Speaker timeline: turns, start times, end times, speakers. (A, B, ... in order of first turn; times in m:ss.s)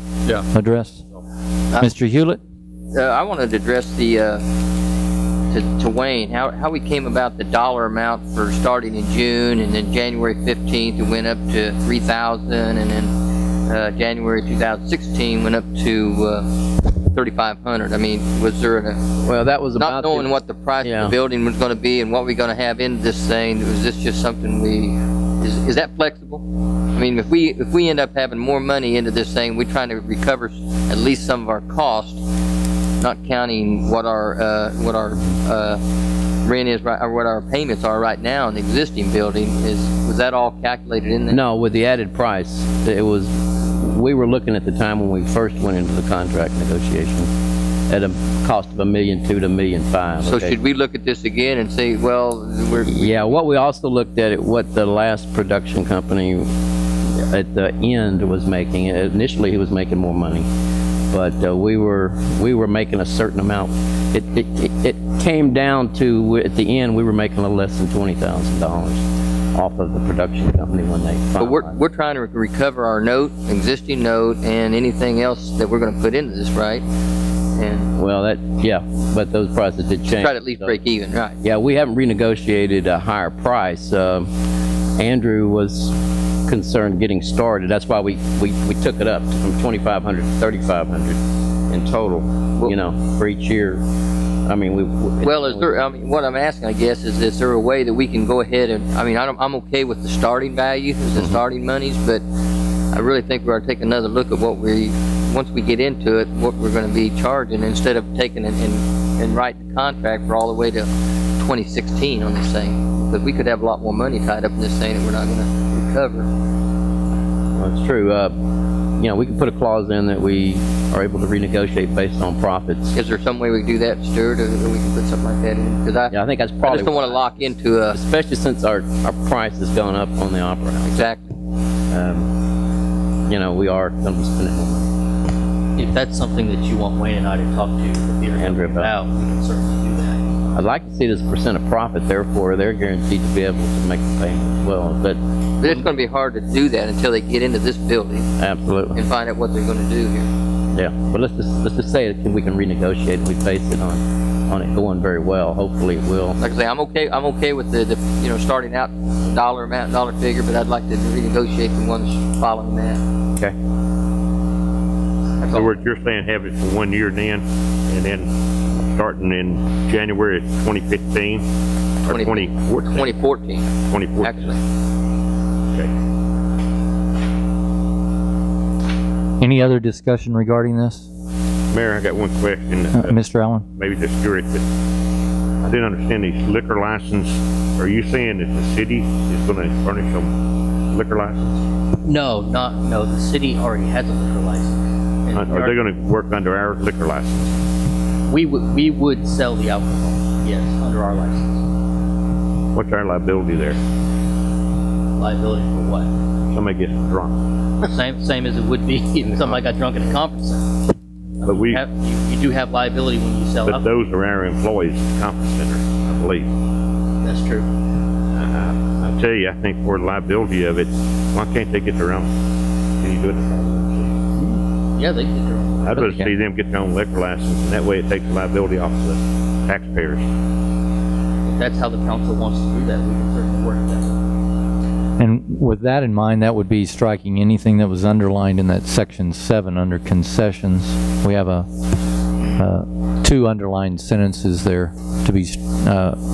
0:00.5-0:01.0 A
0:01.8-0:02.4 A
0:02.9-0:04.4 B
0:05.5-0:13.1 B
0:13.7-0:16.4 B
0:17.1-0:19.0 B
0:19.2-0:20.3 C
0:19.8-0:26.4 B
0:20.8-0:21.2 C
0:27.0-0:32.2 B
0:33.0-0:35.8 B
0:36.4-0:41.4 B
0:41.3-0:47.3 C
0:47.9-0:50.6 C
0:50.2-0:53.1 B
0:52.9-0:56.5 C
0:57.1-1:00.5 C
1:01.1-1:09.0 C
1:09.6-1:11.8 C
1:11.4-1:16.8 B
1:17.6-1:17.9 B
1:18.0-1:20.8 C
1:20.1-1:21.4 B
1:21.4-1:24.3 C
1:25.0-1:31.2 C
1:31.7-1:33.8 C
1:34.5-1:35.7 C
1:35.2-1:42.2 B
1:42.9-1:50.9 B
1:51.4-1:56.3 B
1:57.6-1:58.3 C
1:59.0-2:03.0 C
2:03.0-2:08.0 B
2:06.1-2:11.1 C
2:10.8-2:11.3 B
2:11.9-2:12.3 C
2:13.3-2:14.9 C
2:15.8-2:20.2 D
2:18.4-2:18.9 C
2:20.6-2:25.2 C
2:25.6-2:28.3 B
2:28.4-2:29.0 C
2:28.9-2:30.3 B
2:30.7-2:36.4 C
2:36.4-2:43.0 B
2:45.4-2:45.8 B
2:45.5-2:51.4 E
2:52.0-2:53.2 E
2:52.1-2:54.6 B
2:53.8-2:54.6 E
2:59.4-3:01.1 A
3:01.7-3:03.2 E
3:02.9-3:03.7 A
3:03.8-3:04.6 E
3:05.6-3:10.3 E
3:10.9-3:11.6 E
3:12.0-3:15.8 D
3:15.3-3:17.6 E
3:18.3-3:21.6 D
3:22.7-3:23.8 E
3:25.2-3:26.1 D
3:26.5-3:27.4 E
3:27.9-3:30.6 D
3:31.4-3:31.8 E
3:31.4-3:33.9 D
3:33.6-3:36.5 E
3:37.2-3:37.7 D
3:38.3-3:42.3 E
3:43.0-3:44.2 E
3:44.5-3:46.2 D
3:45.8-3:50.3 E
3:51.5-3:54.2 D
3:55.2-4:01.7 A
4:02.6-4:06.2 A